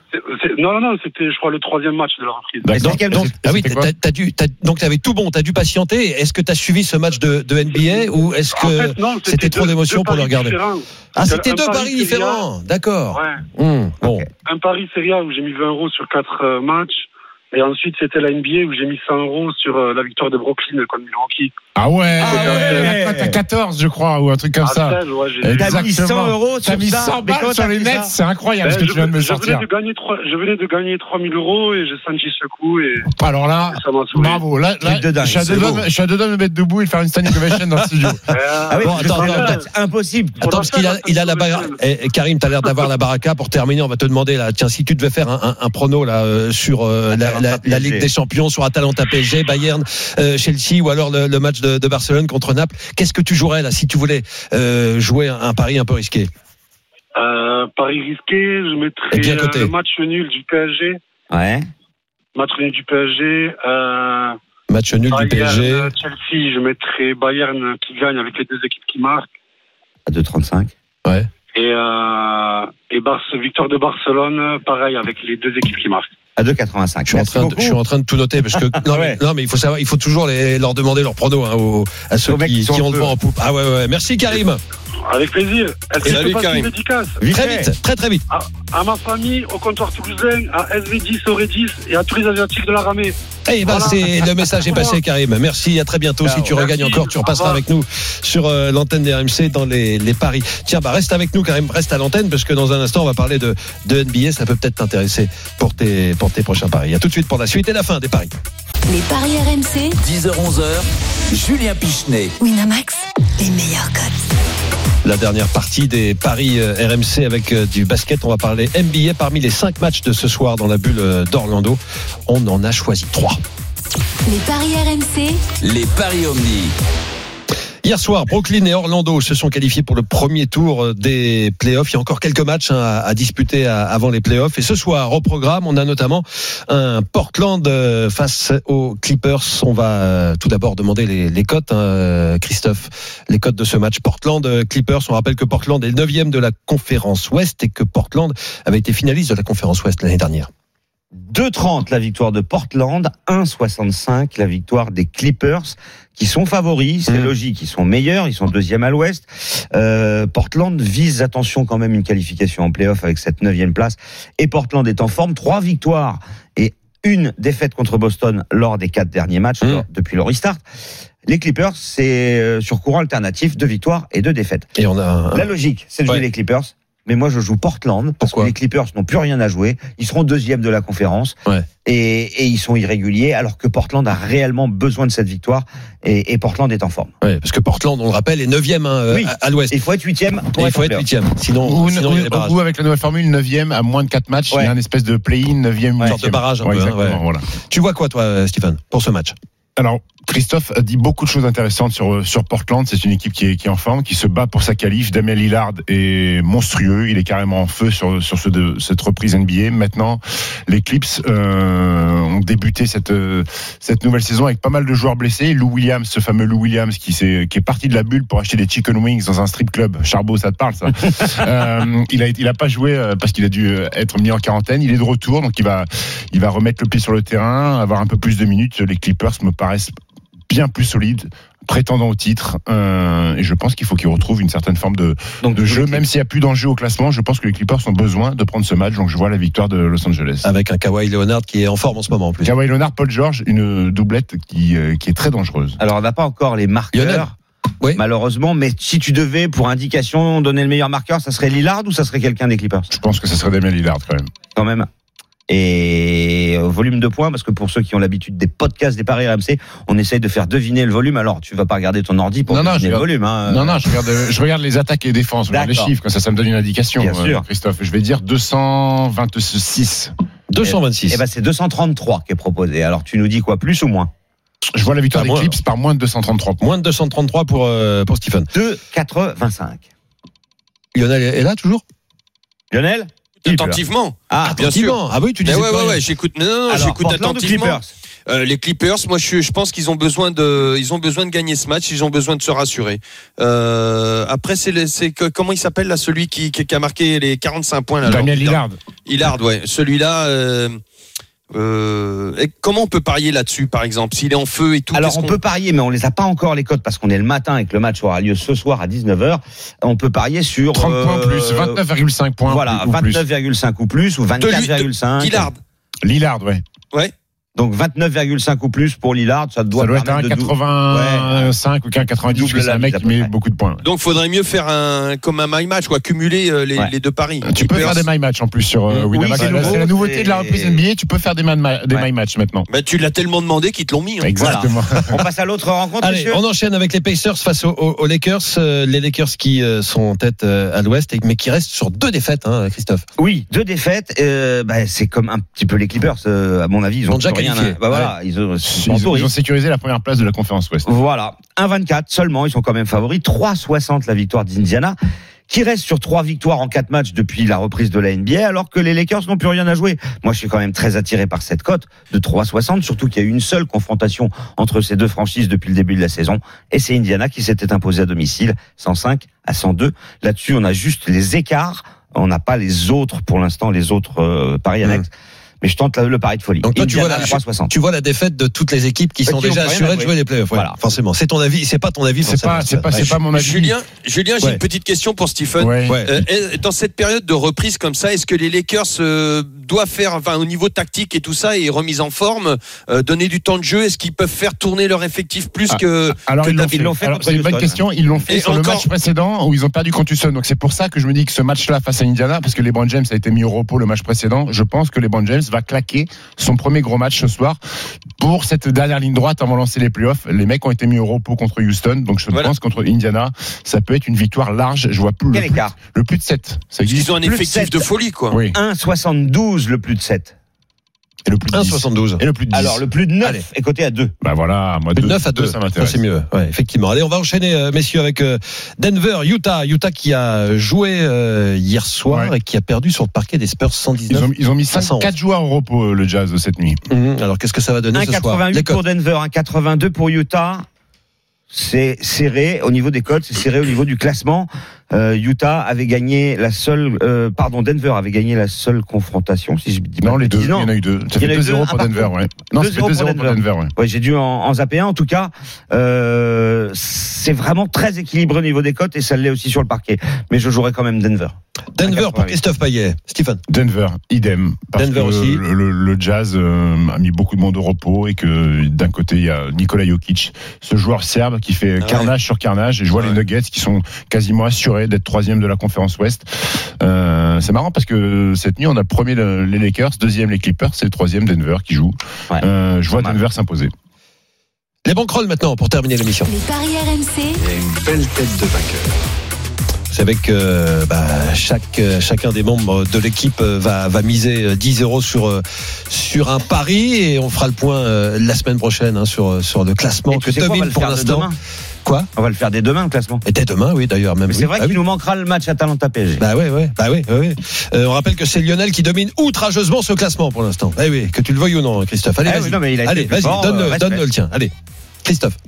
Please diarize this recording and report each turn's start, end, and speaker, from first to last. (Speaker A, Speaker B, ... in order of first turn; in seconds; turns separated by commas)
Speaker A: 0.1-2.8, Speaker B: 2.6-3.9, Speaker C: 2.8-3.4, Speaker D: 2.8-10.6, Speaker A: 7.7-12.4, Speaker D: 11.2-14.2, Speaker A: 13.1-13.4, Speaker A: 14.5-21.6, Speaker B: 21.8-29.7, Speaker C: 22.2-23.4, Speaker A: 22.2-23.0, Speaker A: 24.6-25.9, Speaker C: 25.6-28.1, Speaker A: 28.6-33.1, Speaker B: 33.1-38.3, Speaker A: 33.7-34.5, Speaker C: 34.8-35.9, Speaker A: 38.3-39.7, Speaker C: 38.7-40.5, Speaker D: 38.8-39.6, Speaker D: 40.4-56.3, Speaker A: 40.5-41.8, Speaker C: 47.1-48.1, Speaker A: 57.2-61.0, Speaker D: 59.1-59.7, Speaker C: 61.3-61.7, Speaker A: 62.4-64.4, Speaker D: 64.7-65.9, Speaker A: 65.1-69.3, Speaker C: 70.1-70.7, Speaker A: 71.5-76.1, Speaker C: 76.4-77.8, Speaker D: 77.1-84.6, Speaker C: 78.8-79.2, Speaker C: 82.3-83.2, Speaker A: 85.1-87.2, Speaker E: 86.0-86.7, Speaker C: 87.2-87.7, Speaker D: 87.3-88.2, Speaker A: 88.3-95.0, Speaker D: 93.5-108.3, Speaker A: 96.5-97.6, Speaker F: 108.9-110.0, Speaker G: 110.0-112.3, Speaker F: 112.4-114.2, Speaker D: 115.0-123.4, Speaker F: 124.3-125.4, Speaker G: 125.6-126.8, Speaker D: 127.8-150.5, Speaker C: 151.2-170.6, Speaker C: 171.3-174.7, Speaker D: 174.8-175.5, Speaker C: 175.3-187.1, Speaker D: 178.2-178.5, Speaker D: 187.2-189.8, Speaker C: 189.1-191.1, Speaker D: 190.5-192.6, Speaker B: 191.6-197.5, Speaker D: 196.1-199.3, Speaker B: 199.8-229.9, Speaker B: 230.5-240.5, Speaker C: 235.4-236.0, Speaker D: 240.4-242.5, Speaker B: 242.4-245.8, Speaker C: 245.8-247.3, Speaker D: 246.9-247.3, Speaker C: 247.9-252.9, Speaker B: 252.9-254.3, Speaker C: 254.6-254.9, Speaker C: 255.5-263.8, Speaker B: 262.5-270.1, Speaker C: 265.5-265.9, Speaker C: 267.0-267.4, Speaker D: 270.5-271.2, Speaker C: 270.6-274.1, Speaker B: 274.8-276.6, Speaker D: 275.1-275.6, Speaker D: 276.6-278.5, Speaker C: 278.5-279.8, Speaker D: 280.9-281.8, Speaker C: 282.7-284.8, Speaker E: 283.4-300.8, Speaker D: 284.4-286.0, Speaker C: 286.7-287.9, Speaker B: 298.0-298.8, Speaker E: 301.5-305.4, Speaker C: 304.9-311.8, Speaker B: 310.7-313.2, Speaker C: 312.5-315.5, Speaker E: 314.4-315.6, Speaker B: 316.0-316.6, Speaker C: 317.6-321.5, Speaker B: 319.7-323.8, Speaker C: 322.3-323.3, Speaker E: 323.8-328.0, Speaker B: 327.4-332.7, Speaker C: 328.9-330.8, Speaker E: 329.4-329.7, Speaker E: 332.7-334.6, Speaker B: 334.2-335.2, Speaker C: 334.4-336.4, Speaker D: 336.0-343.0, Speaker C: 343.2-349.3, Speaker D: 347.1-348.1, Speaker B: 348.6-350.9, Speaker C: 350.9-355.0, Speaker C: 355.5-375.1, Speaker C: 375.6-377.7, Speaker D: 376.6-383.2, Speaker C: 379.2-380.8, Speaker B: 382.2-383.7, Speaker E: 383.0-396.9, Speaker B: 385.6-386.0, Speaker D: 385.9-386.1, Speaker B: 395.7-407.6, Speaker C: 396.7-398.2, Speaker E: 398.3-398.9, Speaker B: 408.2-417.1, Speaker C: 415.3-415.8, Speaker E: 416.9-418.4, Speaker C: 417.2-417.9, Speaker B: 418.3-418.6, Speaker C: 418.5-420.3, Speaker B: 421.3-422.8, Speaker D: 421.5-422.2, Speaker C: 422.5-424.1, Speaker B: 424.2-426.0, Speaker D: 425.0-435.1, Speaker B: 432.1-432.3, Speaker B: 434.1-436.8, Speaker D: 436.9-438.8, Speaker C: 437.9-440.7, Speaker C: 441.5-462.4, Speaker B: 450.0-453.7, Speaker D: 461.8-463.4, Speaker B: 463.5-483.7, Speaker D: 464.8-465.4, Speaker E: 471.8-472.1, Speaker C: 482.3-483.2, Speaker D: 484.9-486.3, Speaker F: 486.3-487.4, Speaker G: 487.4-489.1, Speaker D: 489.9-501.3, Speaker C: 500.1-501.4, Speaker C: 502.1-503.2, Speaker D: 503.2-504.8, Speaker C: 504.3-506.2, Speaker D: 506.2-514.5, Speaker C: 512.2-514.0, Speaker D: 515.0-515.4